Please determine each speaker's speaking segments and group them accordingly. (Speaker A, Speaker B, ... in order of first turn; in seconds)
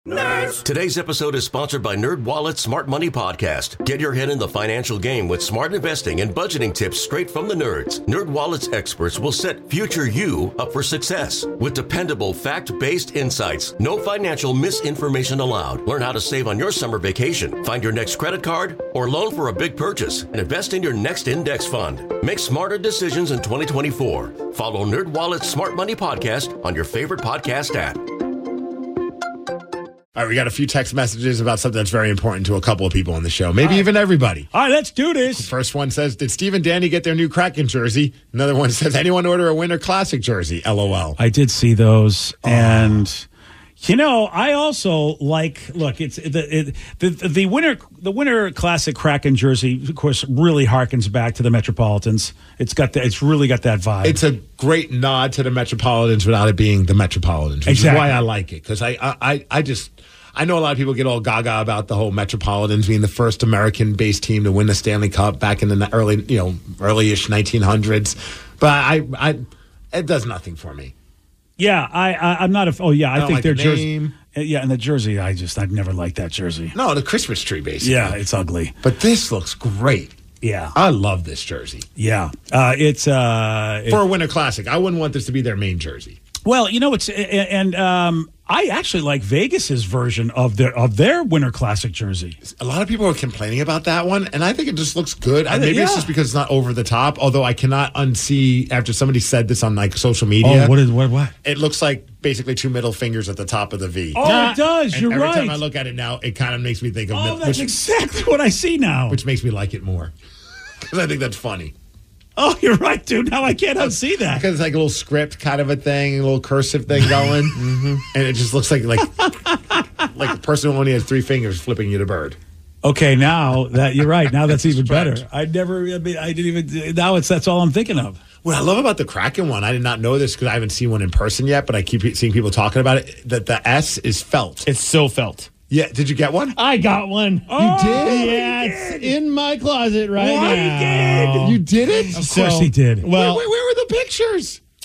Speaker A: 0.4-28.0
Speaker B: 30.1-34.5, 35.3-41.2, 42.4-43.1, 54.0-69.4, 69.9-70.9, 73.1-74.1, 76.8-78.2, 78.8-80.2, 80.7-81.8, 83.9-86.2, 92.4-100.8, 101.4-104.3, 104.9-107.7, 109.1-110.1, 110.8-111.7, 113.8-117.6, 118.1-119.4, 120.0-122.4, 124.6-125.2, 128.4-134.7, 135.7-136.6, 137.6-138.3, 141.3-142.4, 143.1-144.6
Speaker C: 34.5-35.5, 41.2-43.3, 43.8-54.2, 57.7-58.2, 71.6-76.8, 77.8-78.8, 80.4-80.8, 82.0-84.0, 86.5-92.4, 95.5-96.1, 100.4-101.3, 104.1-105.6, 107.1-109.2, 112.4-114.4, 122.8-128.2, 137.5-139.2, 140.2-141.6, 142.2-143.1
Speaker D: 104.3-104.6, 117.5-118.0, 134.7-135.5, 136.6-141.6, 142.1-143.5